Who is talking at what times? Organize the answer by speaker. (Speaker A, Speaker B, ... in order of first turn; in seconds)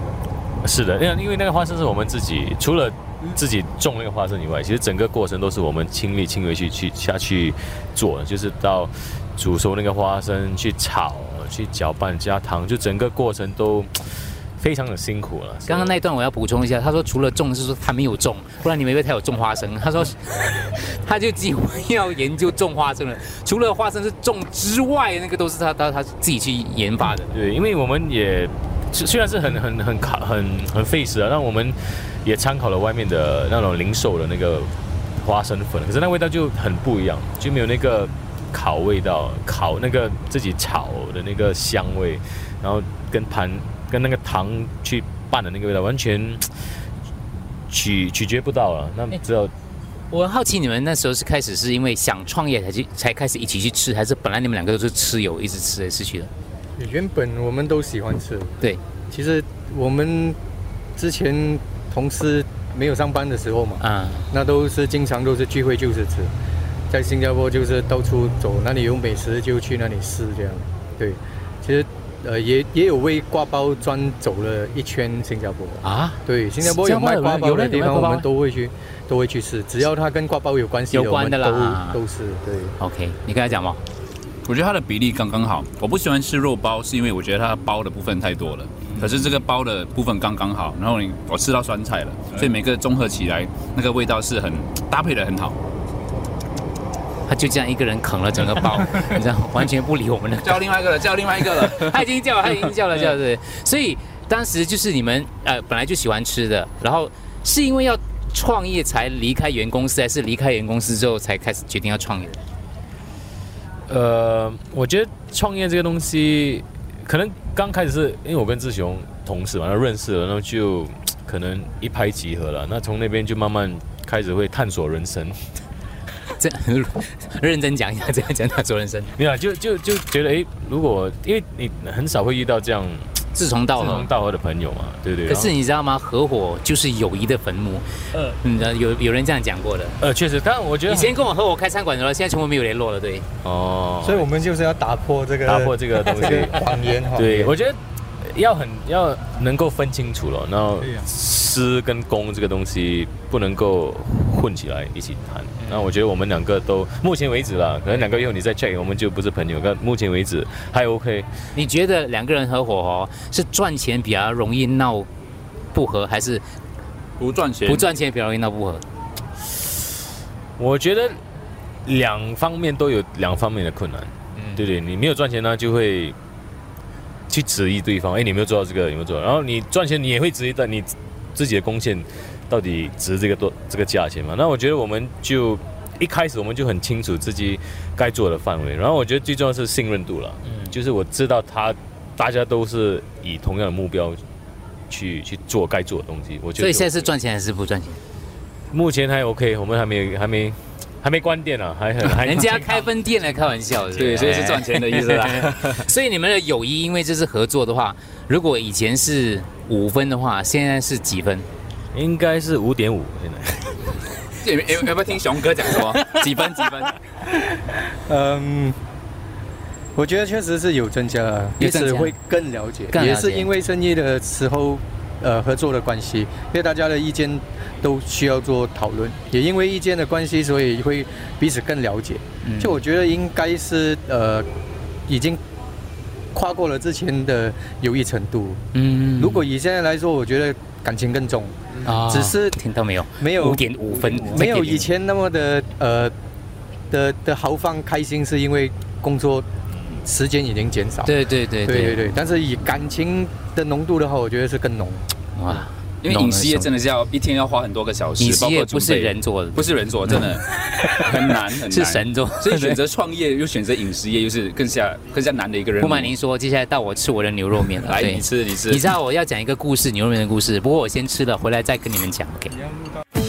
Speaker A: 0.6-16.0, 27.3-46.5, 47.7-49.5, 76.6-78.3, 113.9-125.4, 129.2-133.2, 133.7-135.5, 140.0-141.2, 143.4-144.3, 145.4-146.6, 147.1-161.3, 170.6-171.2, 171.8-176.2, 177.3-194.2, 194.9-197.1, 198.7-202.7, 204.0-204.4, 211.9-214.0
Speaker B: 15.7-27.4, 50.1-56.3, 63.8-64.3, 75.8-76.2, 80.9-82.0, 82.8-83.8, 97.2-100.6, 101.5-112.4, 126.3-129.1, 133.3-134.1, 135.3-140.0, 140.9-143.2, 155.6-155.8, 161.5-165.1, 165.7-166.4, 167.6-168.8, 190.4-190.7, 196.6-198.0, 202.2-211.4, 221.6-222.1, 222.9-223.5, 232.4-232.8, 238.7-239.4, 241.8-244.9, 251.0-252.0, 255.3-256.7, 258.2-261.1, 261.7-262.8, 265.8-272.6
Speaker C: 56.8-58.6, 59.1-60.4, 61.0-66.3, 66.9-82.7, 144.0-147.5, 217.9-218.8, 219.9-234.5, 235.1-235.4, 236.3-238.6, 239.2-242.6, 243.2-246.1, 246.9-249.5, 250.0-255.1, 272.6-272.9
Speaker D: 84.4-95.6, 100.4-102.0, 167.2-167.9, 203.9-205.9, 214.4-217.0, 256.0-266.1, 267.7-268.8